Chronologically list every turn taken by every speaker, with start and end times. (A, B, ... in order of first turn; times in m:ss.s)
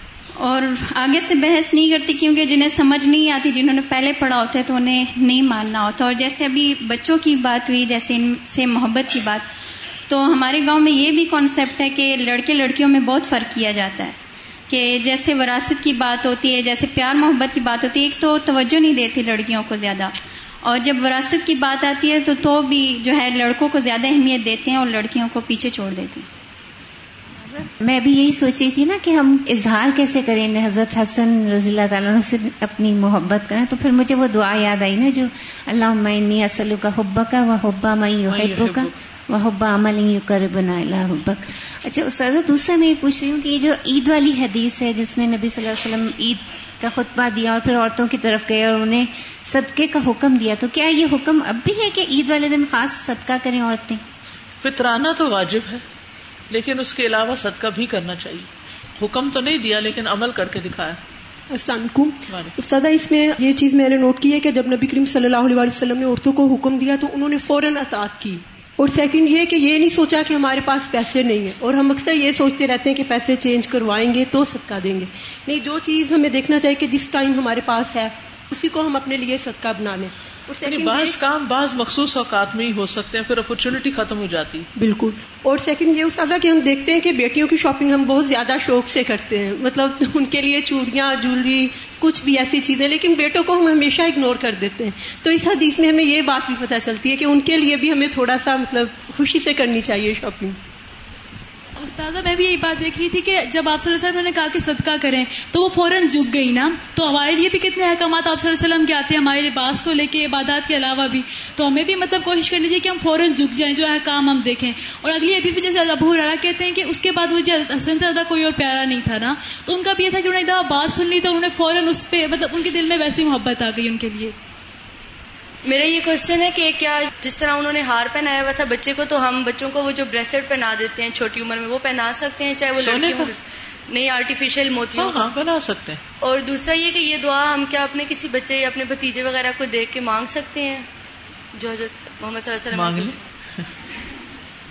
0:00.4-0:09.4 A
0:10.1-0:14.2 A
0:14.7-0:26.2 A
0:27.5-0:54.0 B
0:38.3-0:38.9 C
0:54.6-0:55.8 C
0:56.5-0:58.5 C
0:59.0-1:01.0 C
1:01.5-1:21.1 D
1:20.6-1:24.7 C
1:24.8-1:40.6 D
1:41.8-2:04.3 E
2:05.6-2:13.4 F
2:12.8-2:13.3 C
2:13.9-2:15.3 F
2:14.9-2:16.0 C
2:16.2-2:20.8 F
2:21.5-2:23.2 F
2:22.7-2:23.2 C